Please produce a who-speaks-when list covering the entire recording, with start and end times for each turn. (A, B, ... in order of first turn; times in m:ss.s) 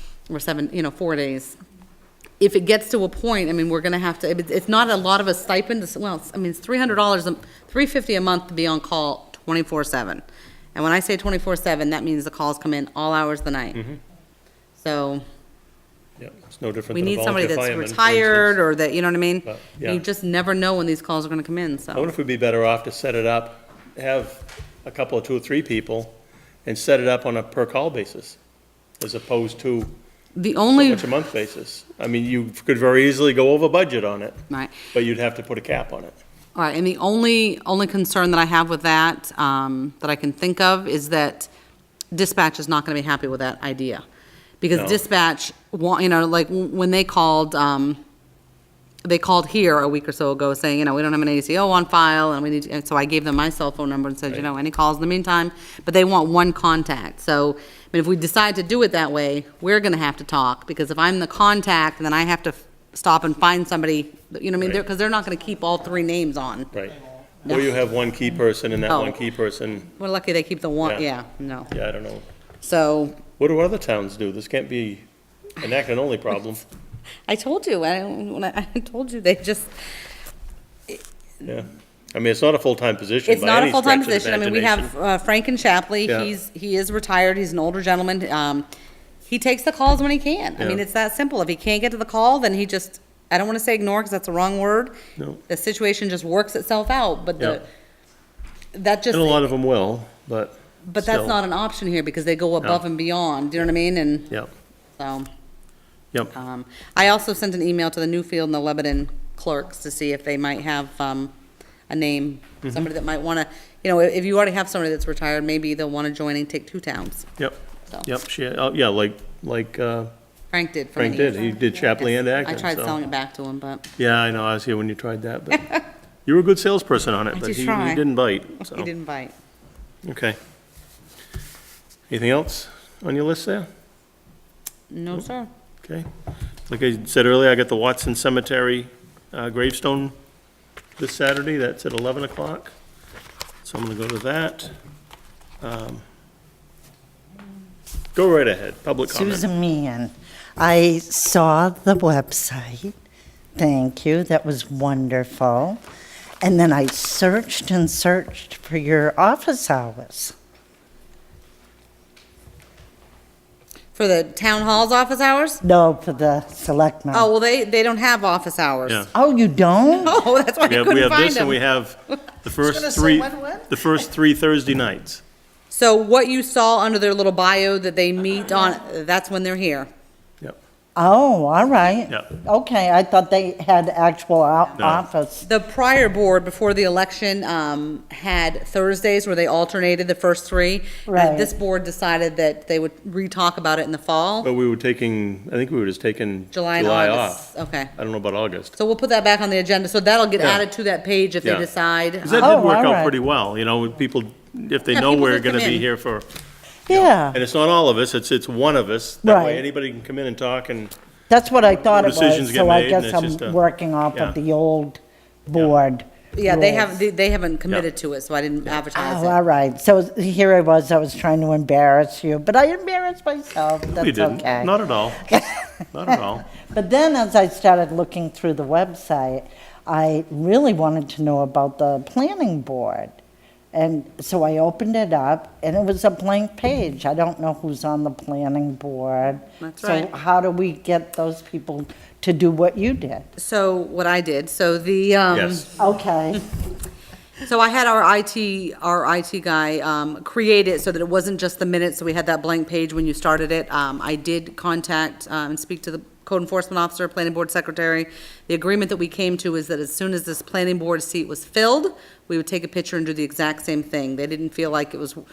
0:00.3-0:01.6 A
0:02.4-0:10.2 A
0:10.8-0:13.8 A
0:14.8-0:15.2 A
0:16.2-0:18.6 B
0:16.9-0:22.1 A
0:19.5-0:20.0 B
0:21.9-0:28.4 B
0:29.0-0:29.9 B
0:30.4-0:31.1 A
0:30.8-0:34.4 B
0:34.5-0:34.8 A
0:34.9-0:36.2 B
0:36.6-0:41.5 A
0:42.1-0:44.0 A
0:44.6-0:48.0 A
0:44.7-0:45.0 B
0:49.0-1:06.7 A
1:06.7-1:09.9 B
1:07.5-1:07.7 A
1:08.9-1:09.2 A
1:10.0-1:11.7 A
1:11.7-1:12.2 B
1:12.6-1:13.2 A
1:13.4-1:15.0 B
1:15.6-1:16.6 B
1:17.3-1:19.7 A
1:21.4-1:24.9 B
1:23.3-1:28.7 A
1:29.3-1:34.9 A
1:35.5-1:37.7 A
1:38.7-1:39.5 A
1:39.1-1:41.4 B
1:40.9-1:44.3 A
1:45.0-1:45.3 A
1:46.3-1:51.3 A
1:51.9-1:57.3 A
1:57.4-2:00.1 B
2:00.5-2:03.9 A
2:01.0-2:03.0 B
2:04.0-2:08.9 B
2:07.3-2:08.0 A
2:08.6-2:09.3 A
2:10.0-2:10.4 B
2:12.1-2:13.7 B
2:14.9-2:15.5 A
2:16.7-2:20.2 B
2:21.0-2:22.7 B
2:23.6-2:24.7 B
2:25.6-2:26.0 B
2:28.2-2:29.4 B
2:29.1-2:33.0 C
2:33.6-2:35.8 C
2:36.4-2:40.3 C
2:44.0-2:45.6 A
2:45.6-2:47.3 C
2:47.1-2:49.1 A
2:49.1-2:50.2 C
2:50.0-2:51.6 A
2:50.6-2:55.2 B
2:52.6-2:53.7 C
2:55.7-2:59.9 A
3:01.0-3:05.5 C
3:04.8-3:05.0 B
3:05.4-3:14.5 A
3:11.1-3:11.5 C
3:14.4-3:18.8 B
3:16.5-3:17.9 A
3:18.8-3:22.6 A
3:20.4-3:20.6 B
3:22.2-3:26.3 B
3:22.4-3:23.2 C
3:24.9-3:25.8 A
3:26.9-3:27.4 C
3:26.9-3:30.9 B
3:29.2-3:29.6 C
3:31.3-3:37.0 C
3:31.6-3:33.6 B
3:36.3-3:39.4 A
3:38.9-3:53.2 C
3:43.9-3:46.5 B
3:53.7-4:03.3 C
3:59.6-4:00.1 A
4:03.4-4:05.7 A
4:05.3-4:05.7 B
4:05.8-4:06.4 C
4:07.5-4:25.2 A